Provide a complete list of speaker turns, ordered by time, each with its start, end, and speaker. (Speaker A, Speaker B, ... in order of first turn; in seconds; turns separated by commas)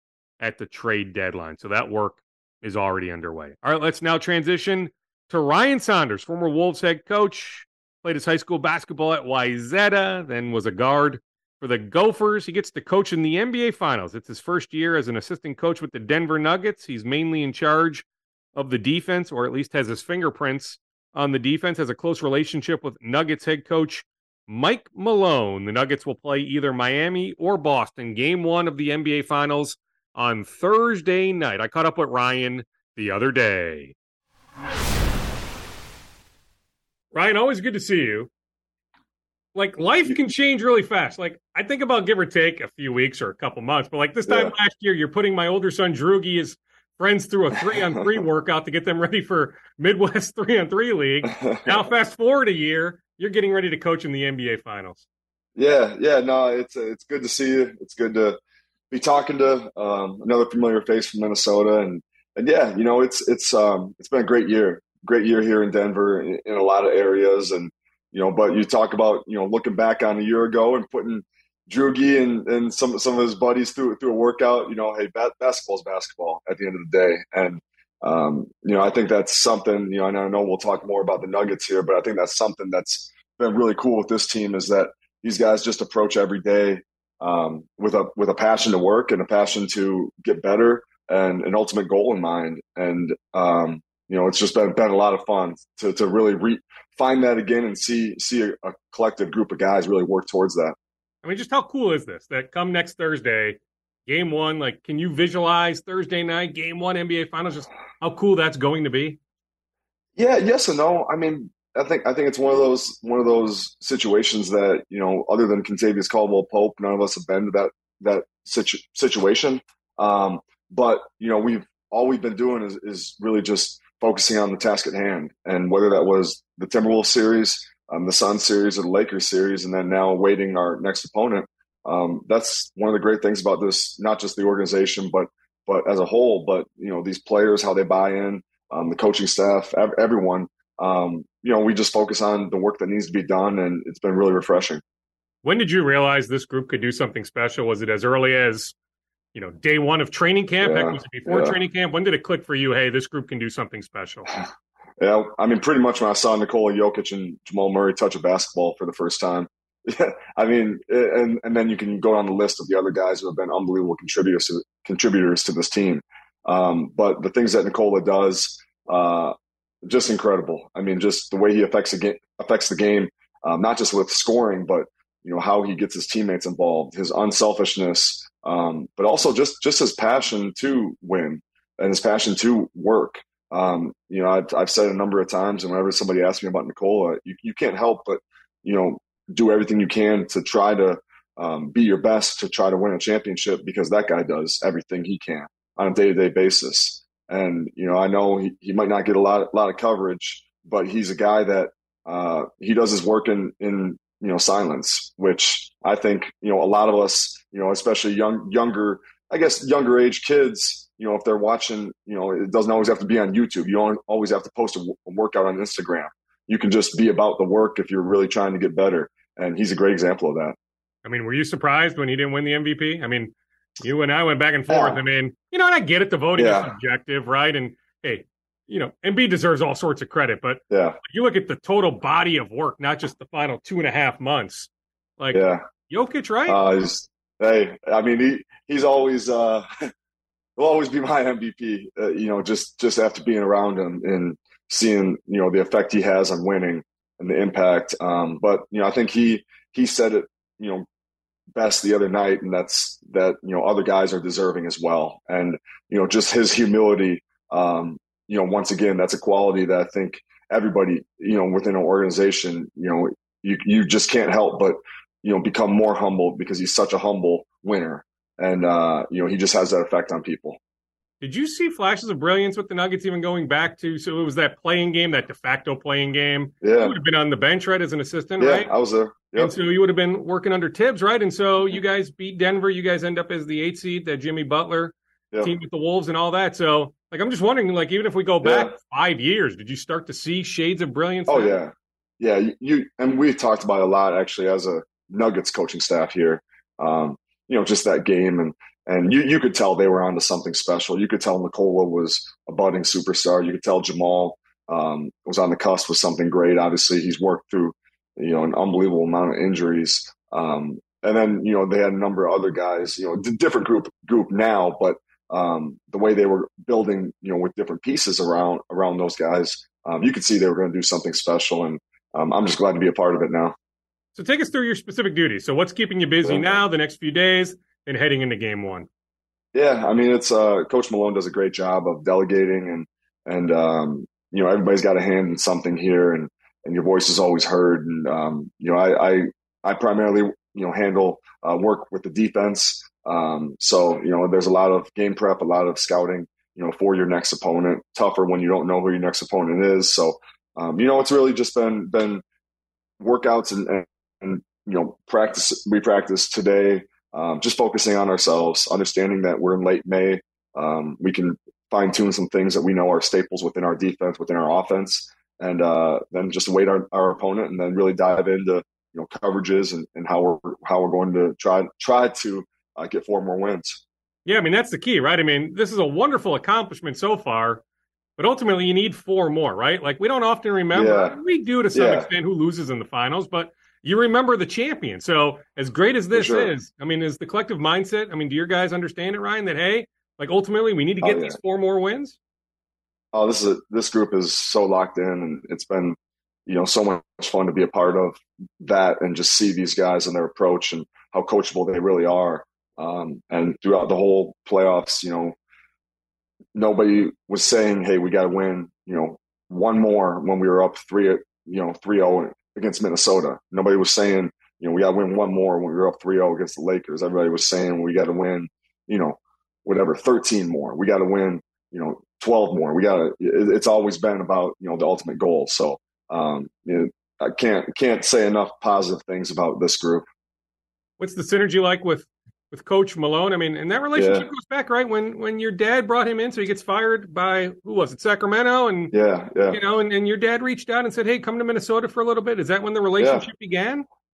Speaker A: 0.4-34.0, Speaker A: 37.1-38.3, Speaker A: 39.5-55.0, Speaker B: 44.3-44.5, Speaker B: 47.7-48.1, Speaker B: 51.2-51.8, Speaker B: 55.6-58.4, Speaker B: 58.9-100.8, Speaker A: 101.2-109.2, Speaker B: 110.2-144.8, Speaker A: 145.4-148.8, Speaker A: 149.3-154.3, Speaker B: 150.6-151.6, Speaker B: 155.0-220.6, Speaker A: 221.0-236.6, Speaker B: 224.7-225.0, Speaker B: 226.4-226.7, Speaker B: 230.7-231.0, Speaker B: 235.3-235.6, Speaker B: 236.5-239.7, Speaker B: 240.6-250.9, Speaker B: 251.5-270.6, Speaker A: 271.2-278.7, Speaker B: 276.6-277.0, Speaker B: 278.4-279.6, Speaker A: 279.4-291.6, Speaker B: 288.4-288.8, Speaker B: 291.3-323.6, Speaker A: 324.2-328.9, Speaker B: 326.2-326.6, Speaker B: 329.5-352.2, Speaker B: 353.0-373.8, Speaker A: 374.3-377.6, Speaker A: 378.2-392.2, Speaker B: 380.7-381.2, Speaker B: 381.7-382.1, Speaker B: 386.1-386.5, Speaker B: 391.0-391.4, Speaker B: 393.1-396.0, Speaker B: 396.5-405.4, Speaker B: 406.6-430.1, Speaker A: 431.0-438.9, Speaker B: 433.9-434.3, Speaker B: 438.9-439.6, Speaker A: 439.5-443.9, Speaker B: 443.0-443.3